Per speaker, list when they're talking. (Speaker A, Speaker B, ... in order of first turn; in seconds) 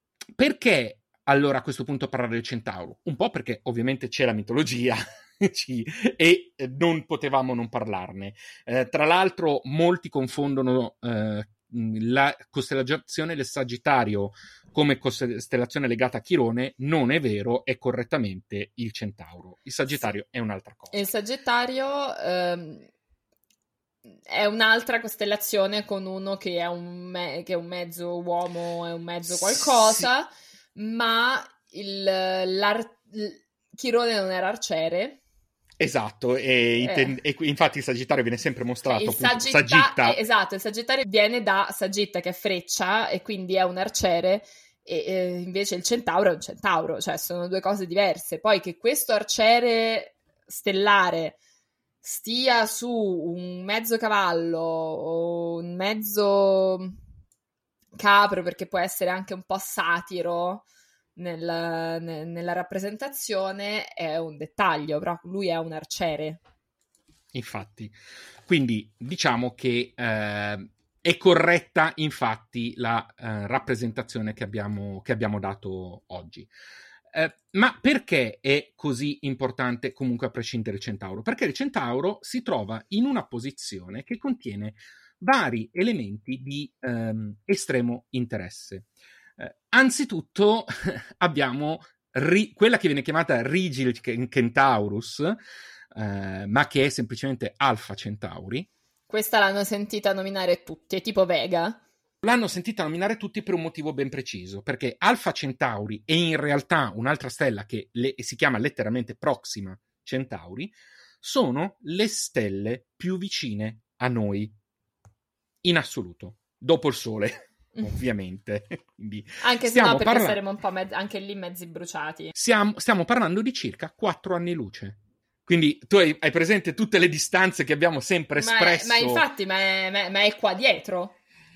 Speaker A: 0.3-21.1, 29.3-30.1, 35.8-40.2, 67.3-76.5, 77.1-95.4, 95.9-98.7, 102.2-114.5, 115.6-120.4, 122.3-129.2
Speaker B: 20.9-22.9, 24.3-35.2, 36.8-37.2, 38.9-51.4, 52.0-57.0, 58.0-66.4, 99.1-101.8, 117.7-118.0, 119.4-122.3, 128.4-131.2